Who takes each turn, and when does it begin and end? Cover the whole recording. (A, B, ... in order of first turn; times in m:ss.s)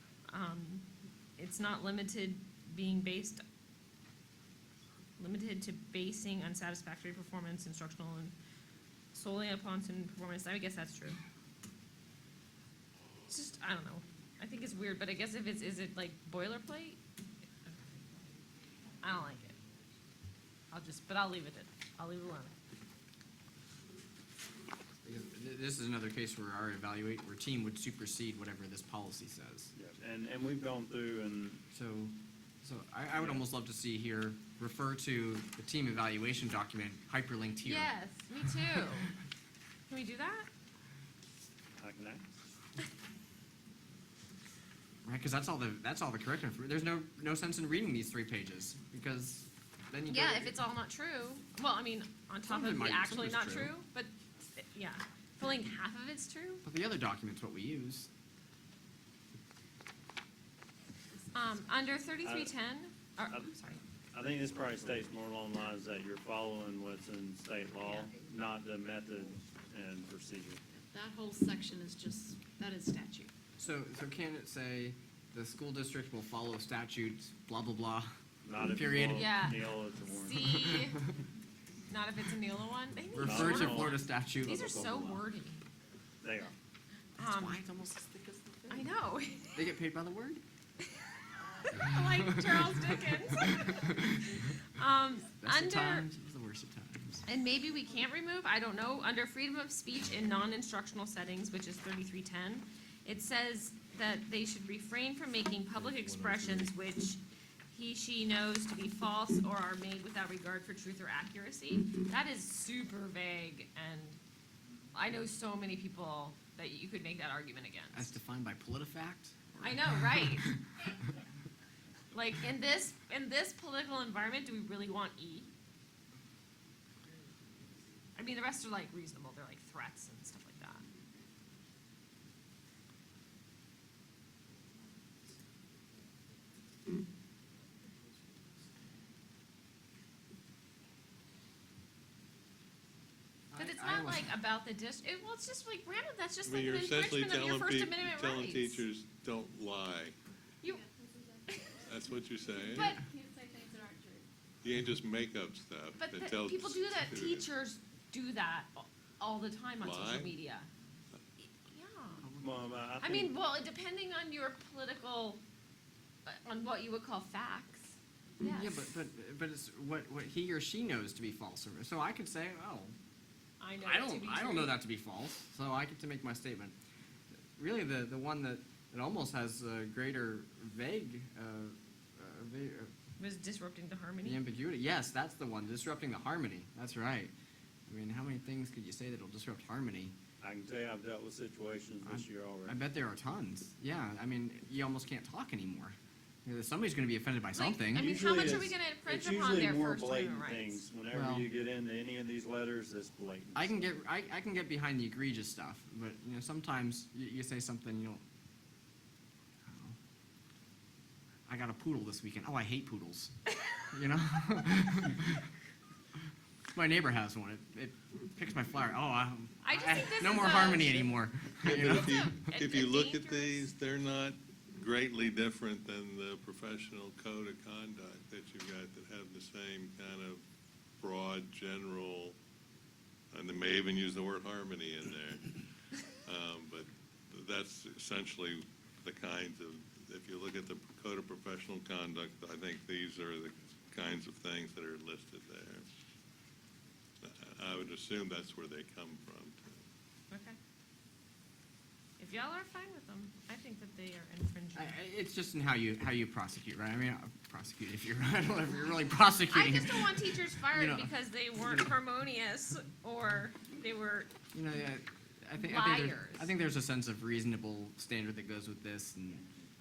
0:00.3-0:03.4 A
0:05.2-0:08.3 A
0:09.1-0:11.2 A
0:13.3-0:17.0 A
0:19.0-0:19.6 A
0:20.7-0:22.5 A
0:25.0-0:29.7 B
0:29.8-0:31.6 C
0:31.7-0:37.9 B
0:33.2-0:33.4 C
0:37.6-0:39.1 A
0:39.9-0:40.5 A
0:41.8-0:42.2 C
0:45.0-0:50.6 B
0:50.1-0:56.6 A
0:52.4-0:53.7 B
0:56.6-0:58.1 B
1:01.3-1:03.8 A
1:02.2-1:02.5 C
1:04.1-1:10.6 C
1:10.9-1:13.3 D
1:13.6-1:18.1 B
1:18.4-1:20.6 C
1:18.7-1:19.3 B
1:19.1-1:21.0 A
1:21.9-1:25.6 A
1:23.1-1:25.0 B
1:23.2-1:25.2 C
1:26.2-1:26.6 C
1:27.2-1:27.6 A
1:27.2-1:28.9 B
1:28.7-1:29.6 A
1:29.5-1:30.4 B
1:31.6-1:36.1 A
1:31.8-1:34.5 B
1:35.4-1:37.3 B
1:37.3-1:54.2 A
1:46.0-1:46.6 B
1:54.9-1:58.2 A
1:57.9-2:00.6 B
1:59.6-2:00.6 A
2:02.1-2:05.5 A
2:08.2-2:10.8 A
2:23.5-2:24.4 B
2:23.6-2:28.8 A
2:26.4-2:30.2 E
2:30.8-2:31.4 D
2:31.5-2:31.8 A
2:31.8-2:33.0 E
2:32.7-2:33.0 A
2:32.9-2:34.3 D
2:34.6-2:37.5 E
2:36.0-2:40.7 A
2:39.8-2:40.4 E
2:41.4-2:42.2 A
2:42.2-2:42.8 B
2:42.4-2:43.3 C
2:43.0-2:45.4 A
2:46.3-2:48.8 A
2:48.4-2:53.0 B
2:53.6-2:54.8 A
2:53.8-2:56.8 B
2:57.6-3:02.9 B
3:03.2-3:04.4 A
3:04.2-3:07.3 B
3:07.9-3:10.2 B
3:10.4-3:12.8 C
3:12.0-3:18.7 B
3:17.5-3:20.8 A
3:18.0-3:23.9 C
3:21.1-3:21.5 B
3:23.6-3:28.2 B
3:29.7-3:30.0 B
3:31.5-3:33.3 B
3:33.9-3:35.5 B
3:36.7-3:42.5 B
3:39.6-3:41.2 A
3:41.6-3:50.4 E
3:41.7-3:43.7 A
3:51.0-3:52.4 E
3:53.3-3:55.6 E
3:56.2-4:05.9 E
4:07.2-4:09.8 E
4:10.3-4:10.6 A
4:12.2-4:15.0 A
4:14.8-4:21.9 B
4:19.5-4:24.3 A
4:24.5-4:29.4 B
4:25.6-4:26.5 A